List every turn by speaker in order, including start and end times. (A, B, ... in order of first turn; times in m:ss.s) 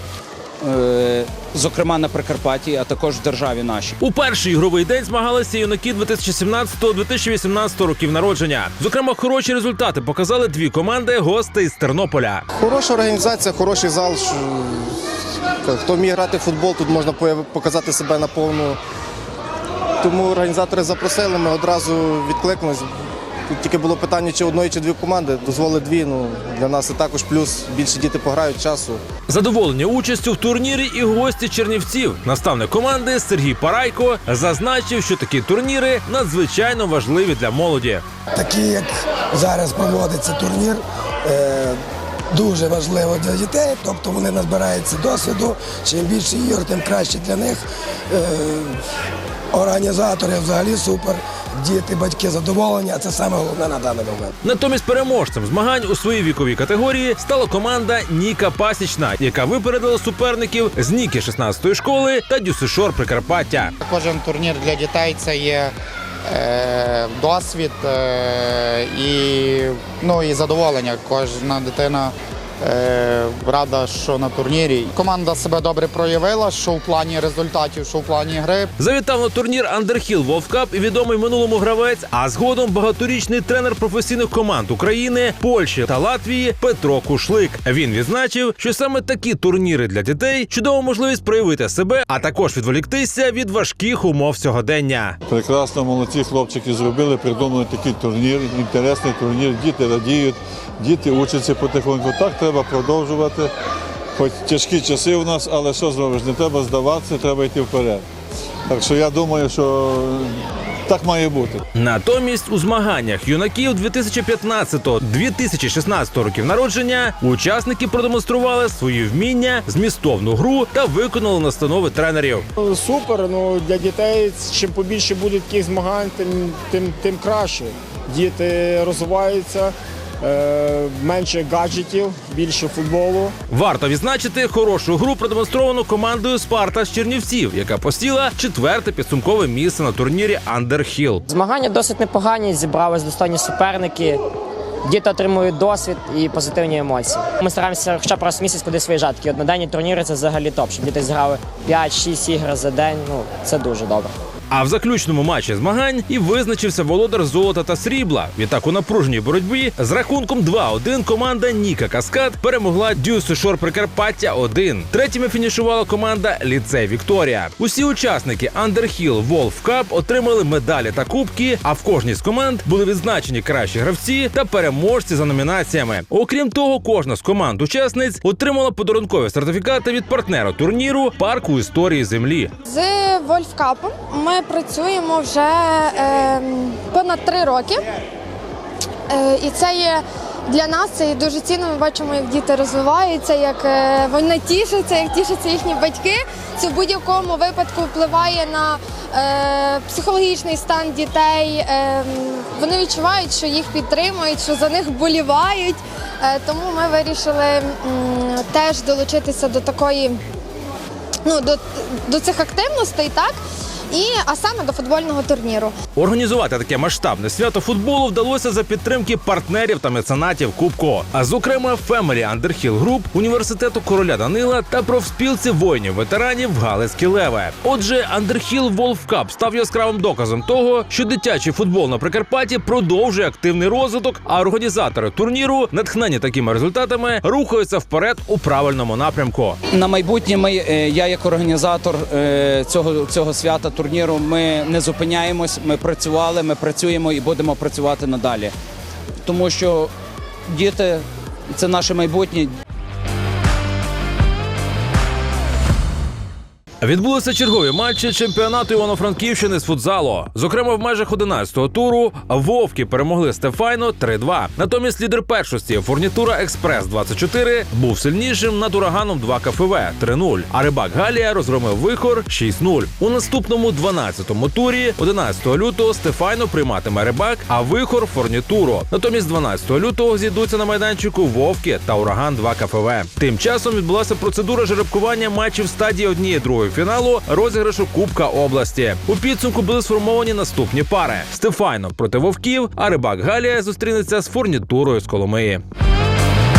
0:00.6-0:04.0 A
0:04.0-0:12.4 B
0:12.6-0:15.0 C
0:15.6-0:18.8 C
0:20.0-0:29.0 C
0:29.3-0:38.0 B
0:38.3-0:41.8 D
0:42.3-0:48.8 D
0:49.5-0:54.3 D
0:54.4-1:03.7 B
1:03.8-1:05.7 E
1:06.3-1:18.7 E
1:18.8-1:35.2 B
1:35.3-1:43.5 F
1:44.2-1:48.0 F
1:48.7-1:50.3 F
1:50.9-1:51.6 F
1:51.7-2:02.4 B
2:02.6-2:13.3 G
2:13.5-2:21.2 B
2:21.3-2:24.2 H
2:24.8-2:34.1 H
2:34.5-3:02.5 B
3:02.6-3:07.8 I
3:09.1-3:30.2 I
3:31.2-3:33.4 I
3:33.9-3:35.7 I
3:36.0-3:59.6 B
3:59.7-4:08.5 A
4:09.2-4:09.9 A
4:10.5-4:12.6 A
4:16.8-4:55.6 B